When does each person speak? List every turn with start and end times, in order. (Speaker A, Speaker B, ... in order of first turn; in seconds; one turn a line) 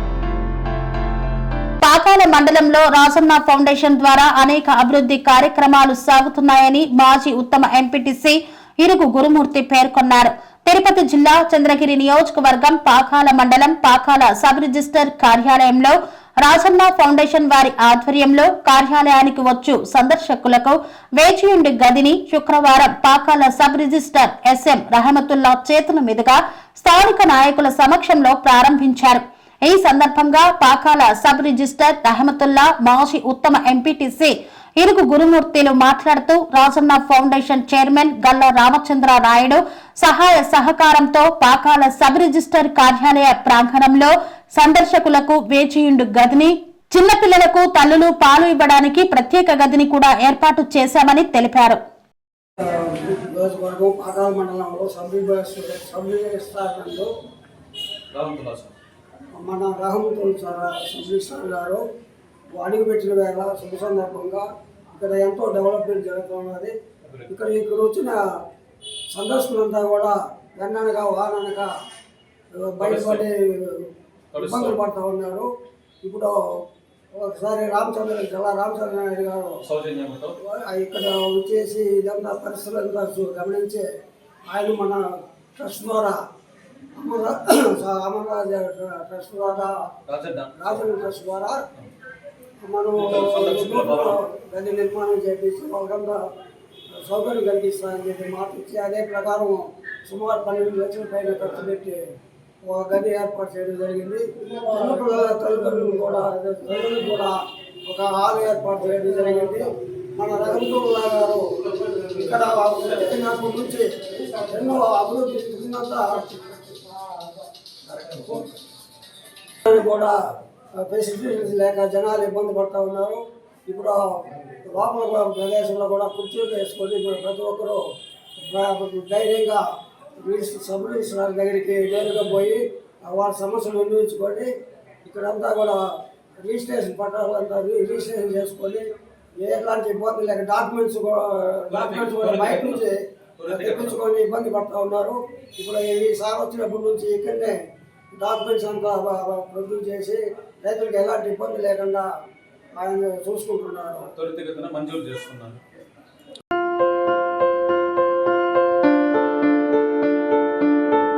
Speaker A: 1.8-51.8
Speaker B: 52.6-57.1
Speaker C: 58.1-58.7
Speaker B: 59.4-61.8
Speaker B: 62.6-66.8
Speaker B: 67.3-68.2
Speaker B: 69.1-71.7
Speaker B: 72.5-75.5
Speaker C: 72.8-73.2
Speaker C: 74.3-74.8
Speaker B: 76.0-76.6
Speaker B: 77.1-79.6
Speaker C: 79.7-80.3
Speaker B: 80.4-83.8
Speaker B: 84.5-85.0
Speaker B: 85.6-86.2
Speaker B: 87.0-89.7
Speaker C: 90.1-90.9
Speaker B: 90.6-91.6
Speaker B: 92.6-96.2
Speaker C: 93.0-94.2
Speaker B: 97.0-102.1
Speaker B: 102.7-116.9
Speaker B: 117.8-118.5
Speaker B: 119.7-120.2
Speaker B: 120.8-127.8
Speaker B: 128.4-129.6
Speaker B: 130.2-134.5
Speaker B: 135.1-135.8
Speaker B: 136.4-138.9
Speaker B: 139.4-147.6
Speaker C: 141.7-144.0
Speaker B: 148.2-152.1
Speaker B: 152.8-154.1
Speaker C: 154.2-155.6